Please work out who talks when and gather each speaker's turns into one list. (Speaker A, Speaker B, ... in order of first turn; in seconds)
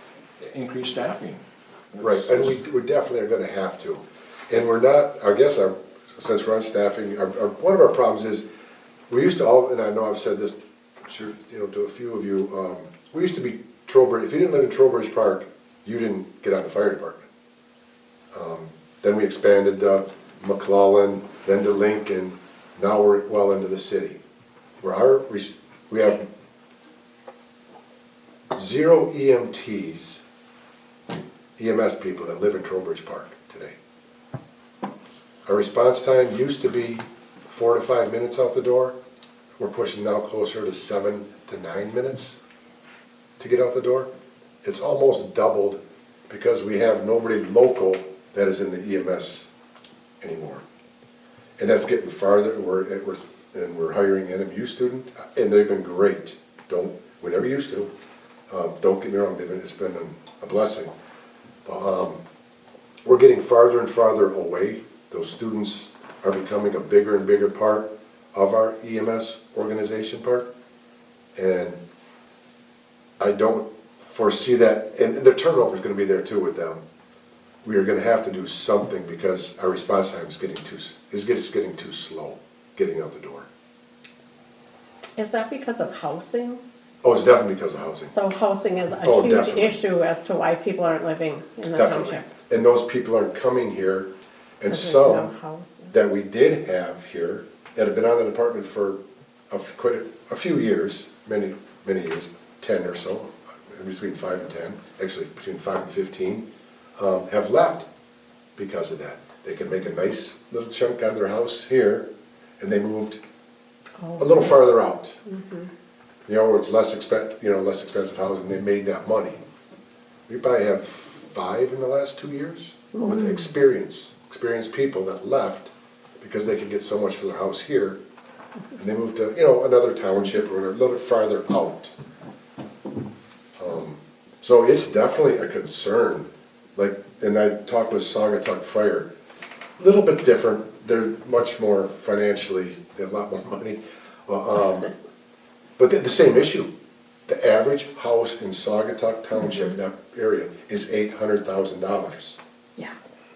Speaker A: 0.4-2.6
Speaker B: 2.0-8.4, 9.1-17.3, 18.3-24.2, 24.8-26.3, 28.5-30.2, 31.6-33.8, 35.5-38.9, 39.6-42.4, 43.4-44.1, 44.6-49.5, 50.2-50.6, 51.6-57.9, 58.5-60.9, 61.6-62.2, 63.0-70.5, 71.3-71.8, 73.2-76.8, 77.6-83.5, 87.0-88.1, 89.0-89.8, 91.7-94.1, 94.6-95.3, 95.9-99.0, 99.5-106.4, 107.0-107.9, 108.6-112.1, 112.6-113.2, 114.2-115.2, 116.3-119.4, 120.3-128.0, 128.8-131.9, 133.6-139.1, 139.8-144.9, 145.8-146.7, 147.3-152.4
Speaker C: 85.2-86.6, 88.1-92.2, 94.7-95.9, 114.0-114.5, 115.2-115.7, 122.9-123.4